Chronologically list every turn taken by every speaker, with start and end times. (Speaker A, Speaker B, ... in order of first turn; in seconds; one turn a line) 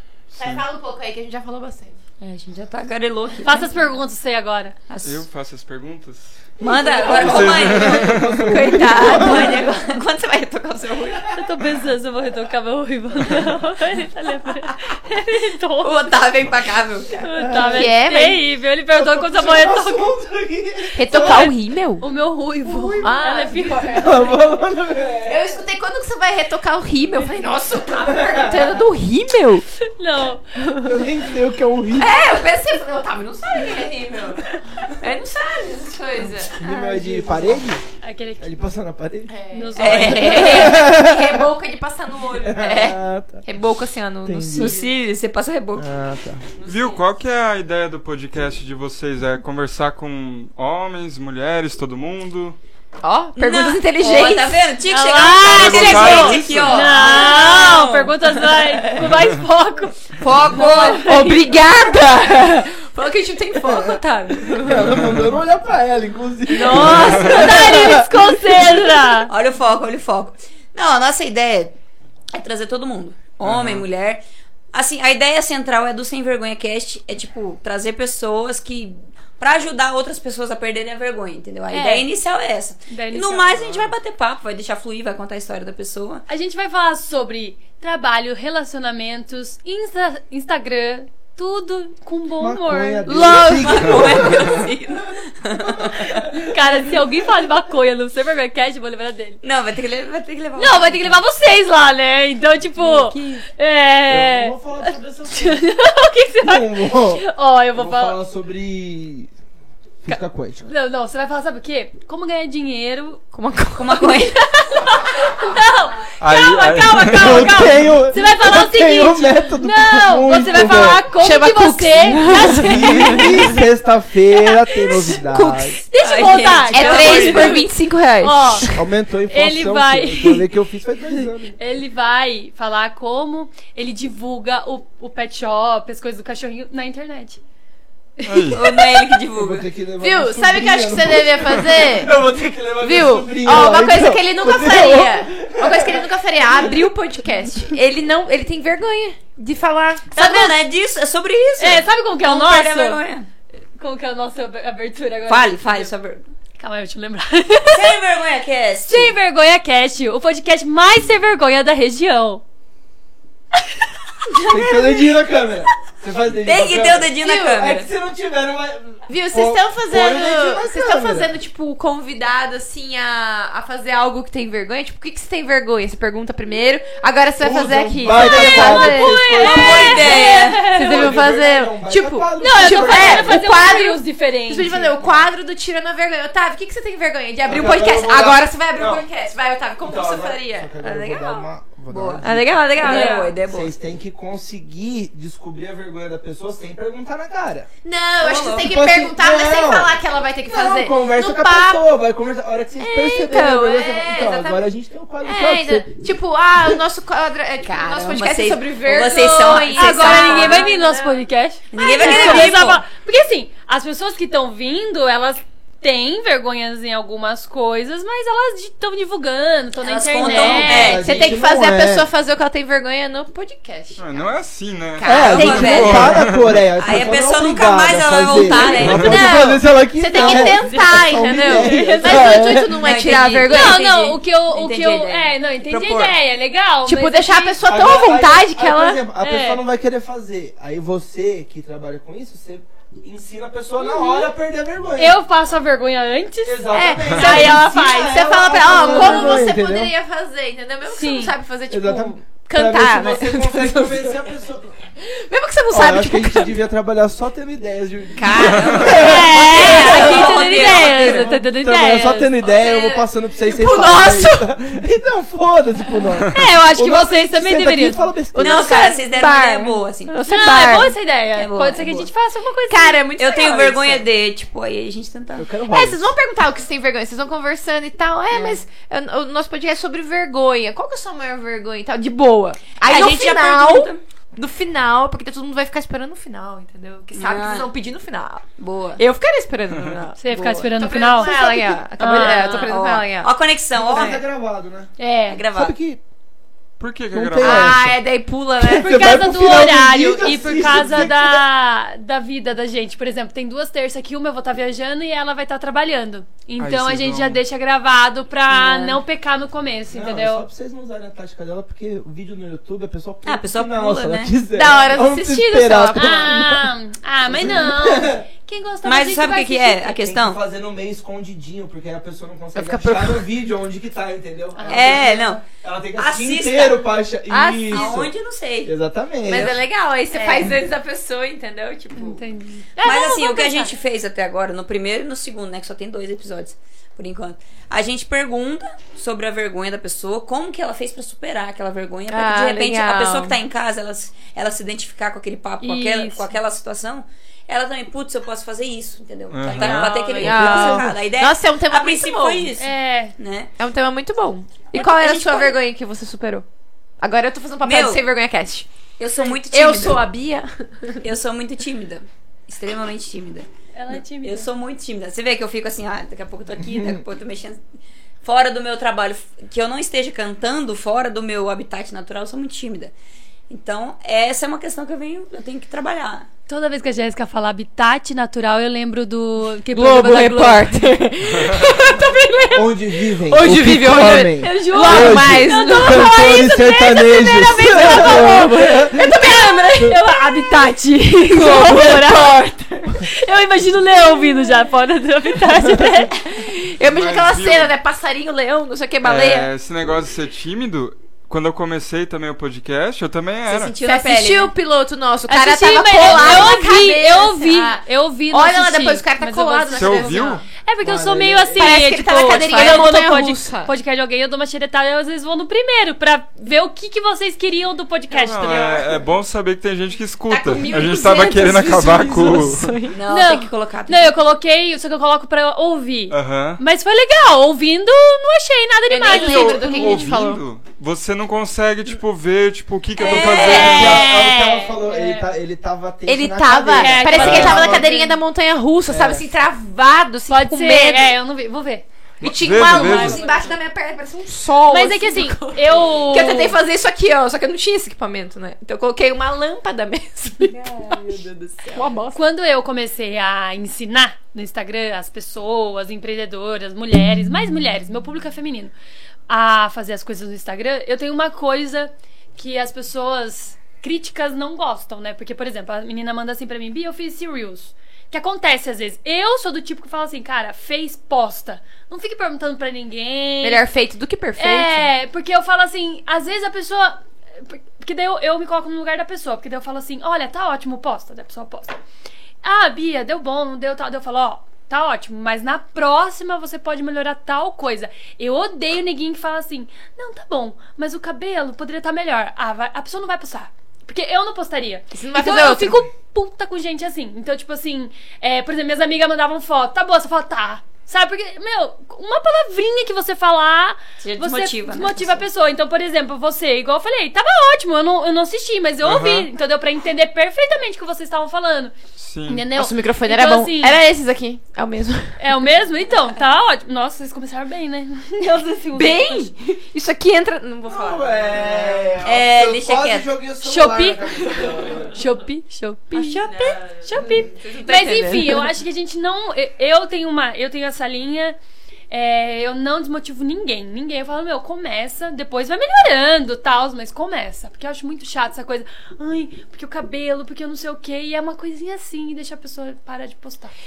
Speaker A: 0.3-0.6
Speaker B: 0.4-2.0
Speaker C: 2.2-3.7
Speaker D: 3.4-4.8
Speaker C: 4.9-5.2
Speaker A: 5.0-6.5
Speaker C: 6.6-11.4
Speaker E: 6.9-9.7
Speaker A: 7.0-8.4
Speaker D: 11.3-16.1
Speaker C: 15.8-17.1
Speaker D: 17.2-20.1
Speaker E: 17.4-17.9
Speaker B: 17.7-18.4
Speaker E: 18.9-21.5
Speaker B: 20.9-22.1
Speaker D: 21.1-24.1
Speaker E: 22.7-23.0
Speaker B: 23.0-24.4
Speaker E: 23.9-25.5
Speaker B: 25.2-29.6
Speaker E: 28.0-28.8
Speaker D: 29.8-30.5
Speaker E: 30.8-32.2
Speaker B: 32.0-37.6
Speaker E: 36.2-37.8
Speaker D: 38.0-38.5
Speaker E: 38.4-39.3
Speaker B: 39.3-44.9
Speaker D: 39.5-40.7
Speaker C: 39.8-40.9
Speaker E: 39.9-41.5
Speaker E: 42.4-43.5
Speaker E: 44.2-44.8
Speaker C: 44.5-45.9
Speaker E: 45.8-46.5
Speaker B: 46.6-47.0
Speaker A: 46.6-52.6
Speaker B: 53.0-54.6
Speaker C: 53.4-58.1
Speaker D: 54.9-61.5
Speaker A: 55.5-56.9
Speaker B: 55.6-59.1
Speaker A: 59.0-59.3
Speaker C: 60.2-61.1
Speaker B: 60.6-64.9
Speaker E: 63.6-68.7
Speaker B: 66.5-68.0
Speaker D: 66.6-69.3
Speaker A: 66.9-67.4
Speaker C: 69.3-71.8
Speaker C: 72.3-74.2
Speaker A: 73.4-73.9
Speaker C: 74.7-86.2
Speaker D: 81.7-82.1
Speaker D: 82.9-83.5
Speaker D: 86.3-93.2
Speaker E: 92.4-94.7
Speaker B: 93.0-94.5
Speaker C: 93.2-96.1
Speaker E: 95.7-96.5
Speaker D: 96.3-99.4
Speaker C: 99.4-101.2
Speaker D: 100.6-108.2
Speaker C: 102.8-103.4
Speaker E: 104.1-105.6
Speaker E: 106.4-109.3
Speaker E: 110.0-110.7
Speaker D: 110.1-113.2
Speaker B: 113.3-114.3
Speaker C: 113.8-114.4
Speaker D: 114.5-123.6
Speaker A: 116.2-117.7
Speaker E: 117.2-121.1
Speaker B: 121.2-123.6
Speaker E: 122.3-125.8
Speaker D: 124.4-125.1
Speaker B: 125.1-125.8
Speaker D: 125.9-128.7
Speaker C: 126.0-127.7
Speaker B: 126.7-128.8
Speaker E: 128.7-131.6
Speaker D: 129.3-130.4
Speaker D: 131.6-137.4
Speaker D: 138.2-138.9
Speaker A: 138.2-138.6
Speaker C: 138.5-139.7
Speaker E: 139.4-146.8
Speaker B: 140.0-142.1
Speaker B: 142.8-150.5
Speaker C: 150.2-153.3
Speaker D: 150.2-150.5
Speaker D: 151.6-153.0
Speaker D: 153.8-155.9
Speaker C: 155.3-156.3
Speaker D: 156.6-157.9
Speaker C: 157.7-159.1
Speaker D: 158.9-162.4
Speaker D: 164.3-165.1
Speaker E: 164.4-171.3
Speaker C: 166.4-167.9
Speaker B: 167.2-167.7
Speaker B: 169.1-179.7
Speaker E: 177.4-183.4
Speaker D: 178.1-181.2
Speaker C: 179.4-180.7
Speaker B: 180.6-191.3
Speaker D: 182.4-184.8
Speaker E: 184.7-185.3
Speaker E: 187.4-189.0
Speaker E: 189.8-197.7
Speaker C: 190.8-193.7
Speaker B: 192.2-193.3
Speaker D: 192.8-193.3
Speaker B: 197.8-201.8
Speaker C: 198.2-198.7
Speaker E: 198.5-206.0
Speaker B: 202.8-204.6
Speaker B: 205.2-211.2
Speaker E: 206.6-206.8
Speaker C: 207.7-210.7
Speaker D: 209.7-221.0
Speaker C: 211.7-212.8
Speaker B: 211.8-212.6
Speaker C: 219.8-221.2
Speaker E: 220.2-222.1
Speaker B: 220.7-224.3
Speaker A: 224.0-226.5
Speaker B: 224.9-226.1
Speaker E: 225.0-232.9
Speaker C: 225.2-226.2
Speaker C: 226.8-229.5
Speaker B: 228.5-233.8
Speaker D: 230.2-232.5
Speaker C: 232.8-236.2
Speaker D: 233.4-237.6
Speaker B: 236.8-239.0
Speaker E: 237.6-245.2
Speaker D: 239.2-239.6
Speaker D: 243.8-244.3
Speaker D: 244.9-247.8
Speaker E: 246.4-249.9
Speaker B: 246.7-254.2
Speaker A: 247.1-247.4
Speaker D: 248.7-249.4
Speaker D: 250.9-251.4
Speaker E: 251.7-254.8
Speaker B: 255.0-256.5
Speaker E: 255.7-268.8
Speaker C: 258.2-261.3
Speaker A: 258.4-258.8
Speaker D: 258.9-262.3
Speaker B: 258.9-261.3
Speaker B: 262.3-264.5
Speaker D: 266.3-268.1
Speaker B: 268.3-270.9
Speaker C: 268.4-270.1
Speaker D: 270.3-273.0
Speaker C: 271.4-272.1
Speaker B: 272.7-274.1
Speaker C: 273.2-275.5
Speaker E: 275.4-276.1
Speaker B: 275.7-288.5
Speaker C: 278.3-278.6
Speaker C: 282.8-284.0
Speaker C: 287.1-287.7
Speaker C: 288.6-289.0
Speaker B: 289.0-293.3
Speaker D: 290.2-291.4
Speaker C: 291.2-294.2
Speaker D: 292.0-292.7
Speaker E: 293.8-294.9
Speaker B: 293.9-294.2
Speaker D: 295.0-295.4
Speaker C: 295.3-295.7
Speaker E: 295.5-296.0
Speaker A: 296.8-297.8
Speaker E: 297.1-298.0
Speaker B: 297.4-299.2
Speaker E: 298.6-301.4
Speaker D: 298.8-310.5
Speaker A: 306.6-307.4
Speaker C: 308.6-308.9
Speaker E: 309.9-316.7
Speaker C: 313.2-314.4
Speaker B: 314.5-316.5
Speaker D: 315.9-319.9
Speaker E: 317.2-318.3
Speaker C: 318.8-320.4
Speaker E: 319.9-328.1
Speaker B: 322.6-323.2
Speaker D: 324.6-325.1
Speaker C: 324.7-325.4
Speaker C: 326.0-326.9
Speaker B: 327.3-328.0
Speaker C: 327.7-328.7
Speaker E: 328.6-329.6
Speaker B: 329.2-332.2
Speaker D: 330.1-330.5
Speaker D: 331.9-333.7
Speaker C: 332.8-353.5
Speaker B: 342.1-343.4
Speaker D: 345.6-346.3
Speaker A: 349.3-350.4
Speaker B: 349.6-352.5
Speaker E: 350.4-350.9
Speaker D: 352.6-353.1
Speaker B: 353.6-356.4
Speaker D: 354.8-355.5
Speaker C: 354.8-355.5
Speaker B: 357.0-358.7
Speaker C: 357.6-358.0
Speaker C: 359.0-360.1
Speaker B: 359.5-361.0
Speaker C: 361.0-367.6
Speaker D: 363.7-364.5
Speaker C: 368.2-372.9
Speaker C: 373.5-376.3
Speaker D: 376.5-381.0
Speaker B: 379.7-386.4
Speaker D: 381.9-382.6
Speaker E: 382.5-389.1
Speaker D: 384.1-392.4
Speaker B: 387.4-390.0
Speaker B: 391.3-393.1
Speaker D: 393.0-396.1
Speaker B: 395.7-399.5
Speaker A: 396.8-397.7
Speaker A: 399.0-403.7
Speaker C: 403.5-404.5
Speaker B: 403.8-410.4
Speaker D: 405.3-418.9
Speaker C: 406.0-406.5
Speaker A: 409.7-410.4
Speaker E: 410.8-412.0
Speaker B: 411.6-413.7
Speaker C: 412.3-412.9
Speaker A: 418.1-422.7
Speaker B: 420.3-423.0
Speaker C: 422.9-424.1
Speaker D: 423.1-430.1
Speaker A: 426.1-426.6
Speaker B: 428.9-430.4
Speaker A: 429.0-434.2
Speaker C: 433.0-434.1
Speaker E: 433.1-437.9
Speaker D: 433.4-435.3
Speaker B: 436.1-441.1
Speaker D: 436.8-438.2
Speaker A: 437.2-437.8
Speaker E: 438.9-439.3
Speaker D: 440.3-441.9
Speaker A: 442.2-443.3
Speaker B: 442.2-452.2
Speaker D: 442.5-443.5
Speaker D: 444.7-446.6
Speaker D: 452.1-458.7
Speaker D: 459.3-473.6
Speaker B: 473.4-474.9
Speaker D: 474.4-481.8
Speaker D: 482.4-511.7
Speaker B: 494.9-495.8
Speaker C: 504.0-505.2
Speaker A: 508.8-509.3
Speaker A: 512.0-512.5
Speaker D: 512.3-513.8
Speaker B: 512.5-515.2
Speaker D: 515.2-519.3
Speaker B: 518.7-521.9
Speaker E: 520.6-525.0
Speaker C: 522.0-523.1
Speaker D: 523.4-524.0
Speaker B: 524.3-524.6
Speaker D: 524.9-531.4
Speaker B: 525.9-528.5
Speaker D: 531.9-543.5